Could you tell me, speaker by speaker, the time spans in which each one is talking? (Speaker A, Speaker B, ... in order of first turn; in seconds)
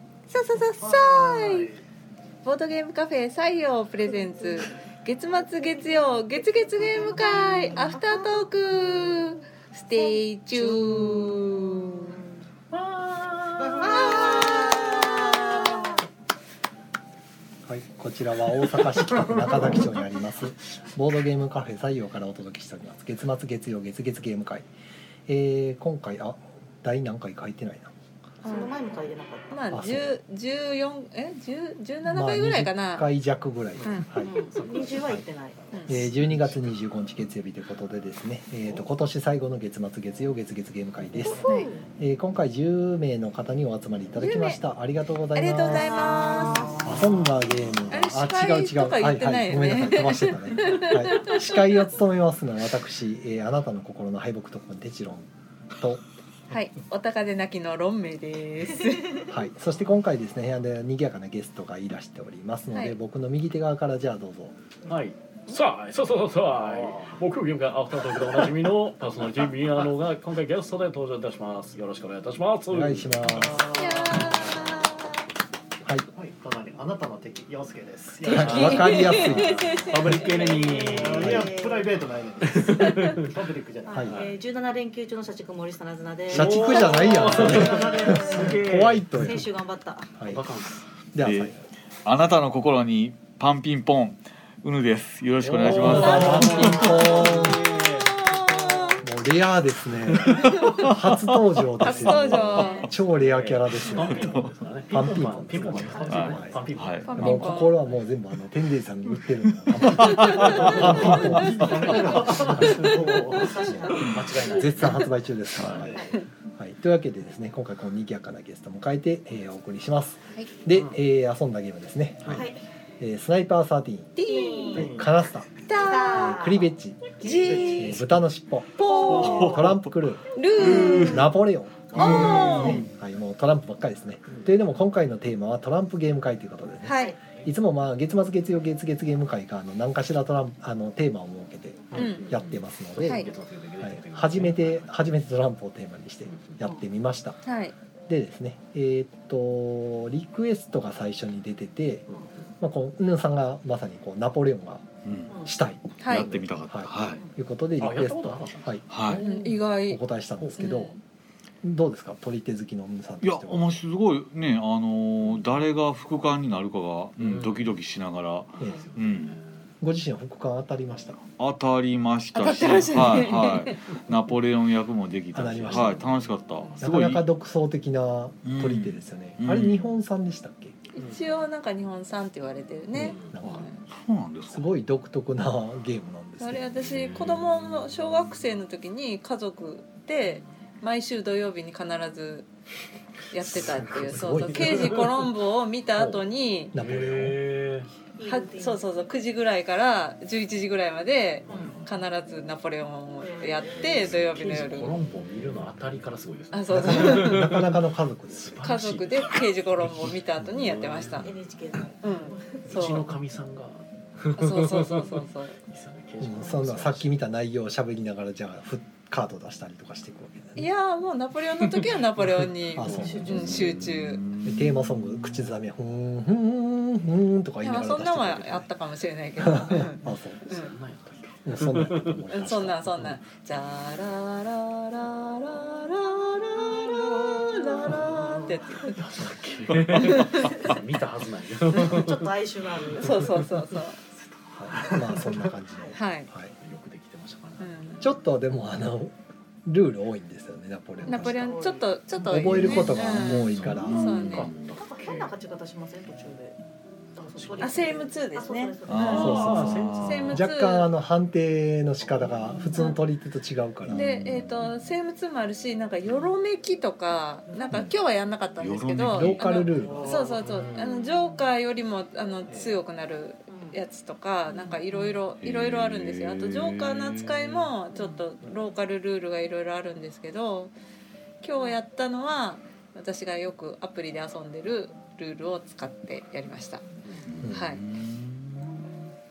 Speaker A: 0.3-1.7, 2.4-12.2, 13.8-15.7, 28.4-28.7, 29.5-33.1, 33.8-34.1, 35.7-36.0, 41.4-41.7, 44.2-44.6, 45.3-47.0, 47.9-51.9, 56.5-59.3, 62.7-63.0, 73.7-75.2, 78.3-80.1, 82.8-83.1, 96.0-99.0, 100.4-100.8, 101.8-102.9, 107.0-107.9, 110.0-110.8, 111.7-113.5, 124.2-124.9, 125.7-126.4, 127.2-128.1, 128.8-129.5, 130.3-131.3, 131.9-132.8, 136.8-137.1, 141.9-142.3, 143.0-143.3, 147.4-147.7, 156.0-156.3, 159.2-160.0, 160.6-161.0, 172.3-173.8, 180.9-183.8, 186.4-192.5, 193.3-196.8, 198.2-204.9, 206.5-207.5, 208.6-211.3, 212.0-213.1, 214.3-215.6, 220.6-224.2, 227.6-230.7, 232.3-239.0, 240.0-240.8, 242.9-244.0, 245.9-246.3, 247.6-248.1, 251.1-254.5, 257.6-260.9, 262.7-263.0, 263.9-280.7, 281.4-286.8, 287.5-287.8
Speaker B: 6.7-8.4, 9.9-12.4, 13.7-15.8, 28.4-29.5, 34.2-36.1, 41.2-41.9, 45.7-47.3, 80.1-81.9, 83.9-90.2, 102.3-102.9, 105.7-106.4, 113.7-114.1, 122.3-122.6, 124.2-125.0, 125.7-127.7, 130.7-131.1, 136.9-137.2, 157.1-157.3, 198.2-198.8, 201.5-201.8, 203.2-204.3, 211.2-212.7, 223.0-223.4, 237.4-238.7, 241.7-243.4, 245.7-246.0, 251.0-251.8, 254.8-256.6, 257.1-259.7, 267.5-267.8, 273.5-273.8
Speaker C: 12.7-14.6, 66.7-67.1, 73.5-74.7, 76.1-84.3, 87.5-88.9, 110.7-114.0, 127.3-127.7
Speaker D: 17.6-24.6, 25.3-27.9, 29.7-30.0, 32.0-34.4, 35.9-41.4, 42.0-56.0, 59.3-64.5, 72.7-74.4, 78.2-79.8, 81.1-81.5, 83.9-84.2, 86.3-89.5, 90.2-90.4, 91.1-91.6, 95.7-97.7, 99.0-124.2, 124.7-125.5, 126.1-127.0, 127.6-147.4, 148.1-152.0, 152.6-154.8, 155.4-158.8, 159.9-160.9, 161.6-163.7, 168.6-168.8, 169.8-171.2, 175.3-176.0, 176.8-180.8, 182.9-183.7, 184.5-186.7, 193.4-195.1, 196.7-197.4, 206.7-208.7, 216.2-220.6, 222.7-223.9, 224.4-228.7, 229.4-230.5, 231.4-233.1, 244.6-246.5, 248.0-249.1, 249.7-251.6, 252.2-254.0, 259.1-264.1, 269.1-270.3, 287.4-287.7
Speaker E: 34.5-34.9, 64.8-73.5, 78.2-81.4, 82.5-83.3, 86.3-89.2, 90.2-90.8, 95.4-98.9, 101.9-102.2, 103.0-107.7, 110.5-111.4, 111.9-116.0, 132.0-132.9, 141.9-145.1, 146.3-146.6, 152.1-152.5, 157.8-159.6, 167.2-167.8, 168.5-169.7, 175.6-177.1, 182.9-183.4, 186.9-187.4, 193.5-195.3, 195.9-197.9, 201.5-201.9, 203.6-211.4, 212.6-217.2, 221.6-223.8, 230.0-232.9, 237.8-242.3, 242.8-243.5, 244.8-245.5, 246.6-248.1, 252.5-253.0, 253.5-255.4, 257.3-258.0, 259.1-260.4, 262.0-262.8, 269.4-271.1, 272.5-272.8, 274.6-275.1, 287.0-287.3
Speaker F: 91.2-97.0, 100.1-101.6, 104.2-104.5, 106.0-107.5, 109.6-111.8, 115.5-115.9, 129.2-131.2, 132.0-132.4, 155.0-155.4, 156.0-157.2, 158.9-159.2, 163.2-169.3, 171.4-177.2, 178.4-179.8, 183.8-184.7, 223.1-225.5, 252.5-254.6, 258.9-260.4, 263.9-264.8, 268.6-269.5, 275.4-277.7, 287.3-288.7